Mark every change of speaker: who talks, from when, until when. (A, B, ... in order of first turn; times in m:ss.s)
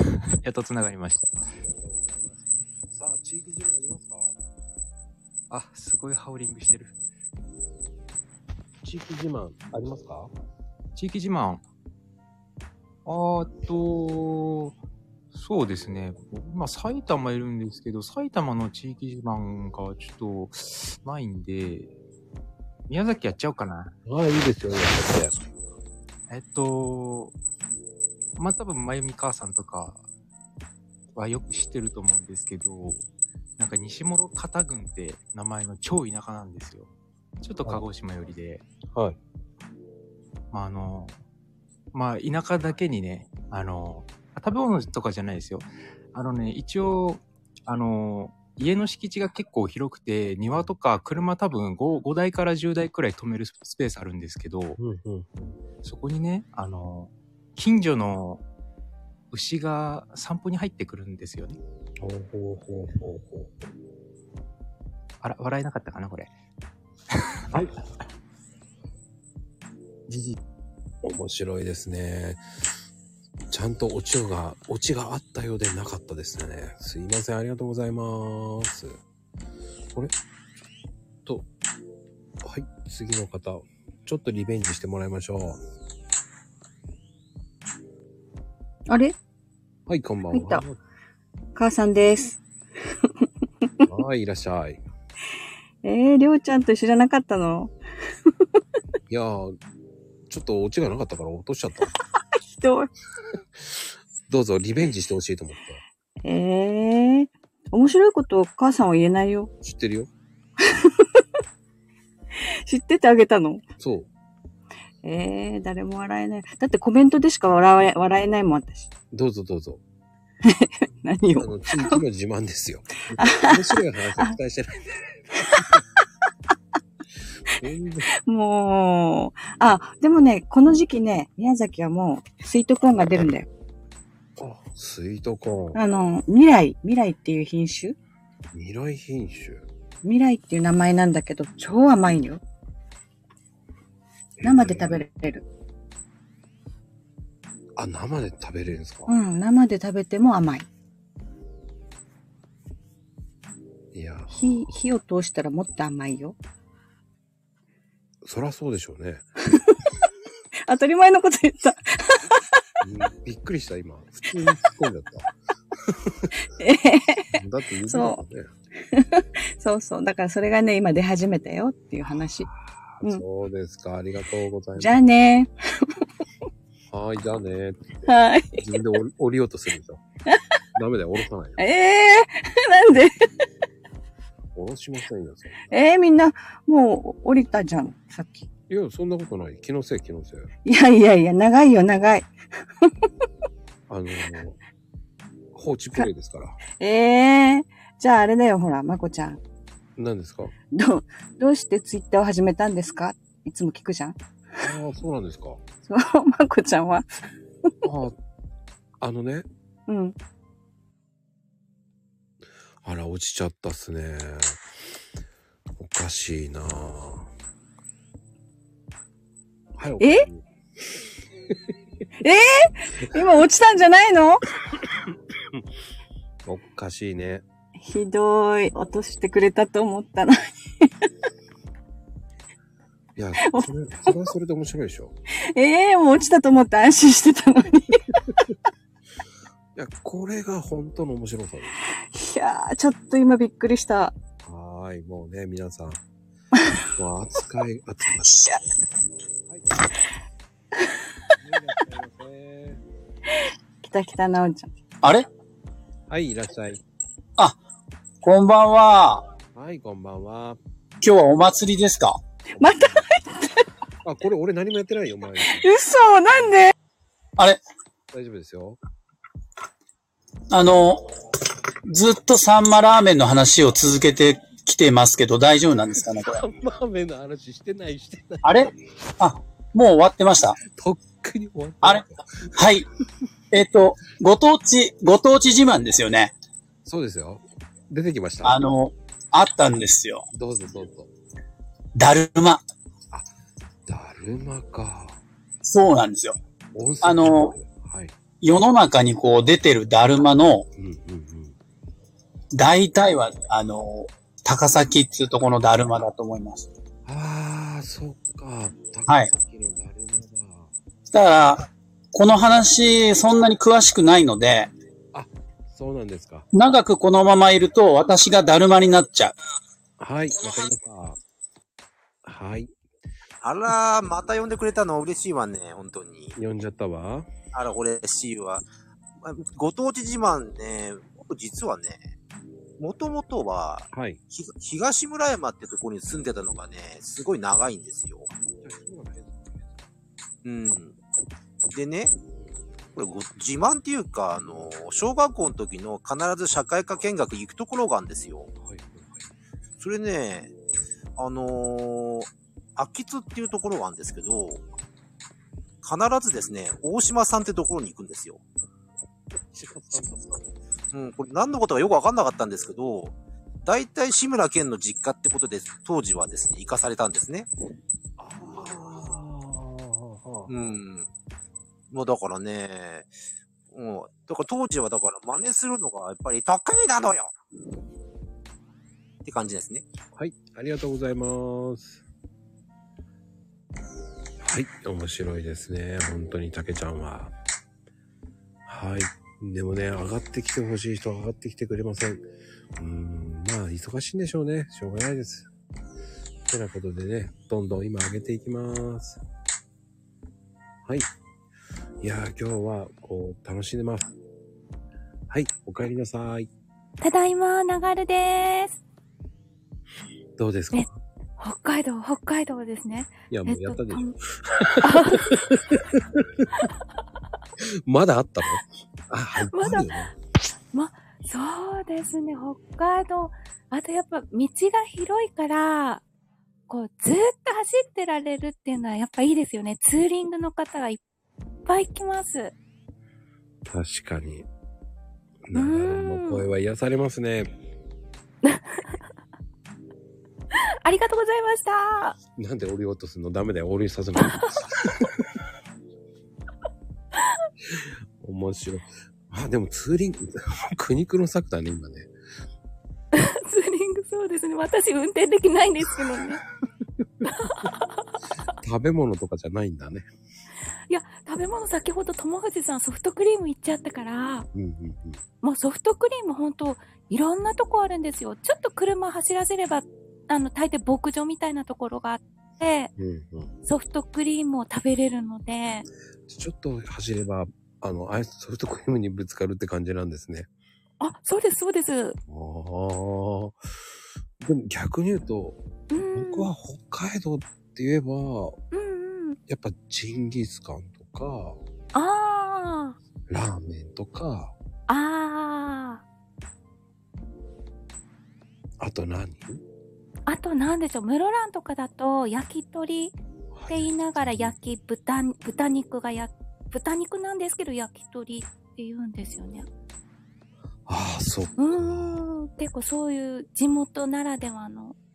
0:00.4-0:01.4 A
0:01.4-0:04.3 B
0:05.5-0:06.9 A
0:08.8-0:10.3 B
0:10.9-0:11.6 A
0:13.0-0:14.8 A
0:15.3-0:21.9 A
0:22.9-0:23.9 A
0:24.0-0:25.4 B
0:26.3-0:27.3 A
0:28.4-0:30.0 A
0:31.1-0:33.0 A
0:33.6-0:36.9 A
0:37.4-0:38.6 A
0:40.5-0:41.2 A
0:41.9-0:54.8 A
0:54.8-0:55.6 B
0:55.8-0:58.4 A
0:59.3-1:01.6 A
1:02.0-1:03.7 B
1:05.2-1:06.3 A
1:11.0-1:12.4 B
1:13.5-1:19.0 B
1:22.4-1:25.6 B
1:28.9-1:29.1 C
1:29.9-1:30.8 B
1:30.3-1:30.6 C
1:31.6-1:32.4 C
1:33.2-1:33.7 C
1:33.9-1:34.8 B
1:35.8-1:37.7 C
1:39.1-1:39.6 B
1:40.3-1:41.9 B
1:42.5-1:42.9 C
1:43.6-1:45.8 B
1:46.2-1:49.5 C
1:49.6-1:50.1 B
1:50.7-1:51.0 C
1:52.6-1:53.6 C
1:53.8-1:54.1 B
1:55.0-1:58.9 C
1:59.1-1:59.8 B
2:00.4-2:02.0 C
2:01.4-2:04.8 B
2:03.2-2:03.6 C
2:07.6-2:08.1 B
2:08.2-2:13.5 C
2:14.4-2:15.8 B
2:15.7-2:18.0 C
2:18.5-2:19.7 B
2:20.0-2:22.4 C
2:24.4-2:25.0 B
2:24.4-2:25.4 C
2:27.8-2:29.1 B
2:29.1-2:30.7 C
2:33.9-2:34.4 B
2:34.3-2:36.4 C
2:38.2-2:39.3 B
2:40.7-2:42.3 C
2:42.8-2:45.3 B
2:45.9-2:46.3 B
2:46.6-2:47.3 C
2:47.3-2:48.5 B
2:47.9-2:48.2 C
2:48.8-2:52.5 C
2:52.5-2:55.0 B
2:54.8-2:55.5 C
2:56.9-2:57.9 B
2:58.1-2:58.6 C
2:58.6-3:00.0 B
3:00.7-3:01.6 B
3:01.6-3:03.3 C
3:04.5-3:05.7 B
3:05.7-3:08.5 C
3:08.7-3:10.5 B
3:10.6-3:12.3 C
3:13.9-3:14.6 B
3:15.5-3:16.6 B
3:16.7-3:19.4 C
3:20.0-3:20.5 B
3:20.7-3:24.2 C
3:24.6-3:25.6 B
3:25.8-3:27.1 C
3:27.8-3:28.2 B
3:29.0-3:29.4 B
3:29.9-3:30.1 C
3:32.8-3:34.6 B
3:35.8-3:37.3 B
3:39.8-3:40.4 B
3:40.0-3:40.2 C
3:42.2-3:44.4 C
3:46.4-3:47.4 B
3:47.8-3:50.9 C
3:53.2-3:55.1 B
3:55.5-3:58.0 C
3:59.7-4:01.8 B
4:02.1-4:04.1 C
4:04.4-4:06.0 B
4:07.0-4:08.6 B
4:08.3-4:08.6 C
4:09.4-4:09.8 B
4:11.4-4:12.8 B
4:13.8-4:14.7 C
4:16.1-4:16.8 B
4:18.2-4:19.3 D
4:19.5-4:20.6 B
4:21.0-4:22.2 D
4:22.6-4:23.0 B
4:22.6-4:23.6 C
4:24.0-4:25.7 B
4:25.6-4:26.7 C
4:28.1-4:28.8 B
4:30.5-4:31.1 D
4:31.9-4:36.4 D
4:36.2-4:38.5 B
4:38.4-4:40.6 D
4:40.6-4:42.2 B
4:42.6-4:42.8 D
4:43.5-4:46.3 D
4:46.8-4:48.7 B
4:48.4-4:50.2 D
4:50.3-4:51.1 B
4:52.0-4:52.6 D
4:53.9-4:55.2 B
4:55.6-4:56.4 D
4:56.7-4:58.1 B
4:57.0-4:57.5 D
4:58.4-5:00.6 D
5:00.7-5:01.6 B
5:02.5-5:06.7 D
5:07.0-5:10.7 B
5:11.1-5:14.7 D
5:15.1-5:16.4 B
5:16.5-5:19.3 D
5:20.0-5:21.2 B
5:22.2-5:22.7 B
5:23.4-5:26.3 E
5:26.3-5:27.3 B
5:27.5-5:28.6 E
5:29.2-5:32.1 E
5:32.8-5:38.3 E
5:33.9-5:34.2 B
5:38.6-5:39.8 B
5:40.4-5:41.0 E
5:41.7-5:42.1 E
5:42.9-5:48.5 E
5:48.6-5:49.3 B
5:49.8-5:50.5 E
5:51.2-5:54.6 E
5:55.8-5:58.4 E
5:59.3-6:00.5 B
6:00.9-6:07.5 E
6:08.2-6:10.6 B
6:10.5-6:11.1 E
6:11.9-6:13.1 E
6:13.7-6:17.3 E
6:19.2-6:19.8 E
6:20.1-6:22.0 B
6:24.4-6:27.3 B
6:28.6-6:32.2 B
6:32.8-6:35.5 B
6:36.5-6:39.2 B
6:42.0-6:44.1 B
6:45.3-6:46.5 B
6:47.0-6:48.8 F
6:50.4-6:50.9 B
6:50.7-6:54.1 F
6:53.3-6:56.6 B
6:54.8-6:55.3 F
6:57.8-7:00.1 B
6:59.5-7:00.1 F
7:00.7-7:06.0 F
7:06.7-7:11.0 F
7:11.6-7:12.5 F
7:13.6-7:14.5 B
7:15.5-7:17.5 B
7:15.5-7:16.4 F
7:18.4-7:19.0 F
7:20.8-7:22.2 F
7:22.4-7:24.8 B
7:27.7-7:32.1 B
7:33.1-7:36.4 F
7:37.3-7:37.7 F
7:38.6-7:40.0 B
7:40.9-7:44.5 F
7:44.5-7:45.2 B
7:45.4-7:52.9 F
7:53.0-7:53.5 B
7:53.6-7:55.8 F
7:56.3-8:00.5 B
8:01.0-8:02.2 F
8:02.3-8:03.6 B
8:04.4-8:08.6 B
8:05.9-8:06.5 F
8:08.7-8:09.4 F
8:09.5-8:11.6 B
8:11.9-8:13.0 F
8:13.3-8:14.5 B
8:14.9-8:16.0 F
8:18.8-8:19.6 B
8:20.3-8:23.2 F
8:23.5-8:24.6 B
8:23.7-8:29.7 F
8:30.9-8:32.2 B
8:31.6-8:35.0 F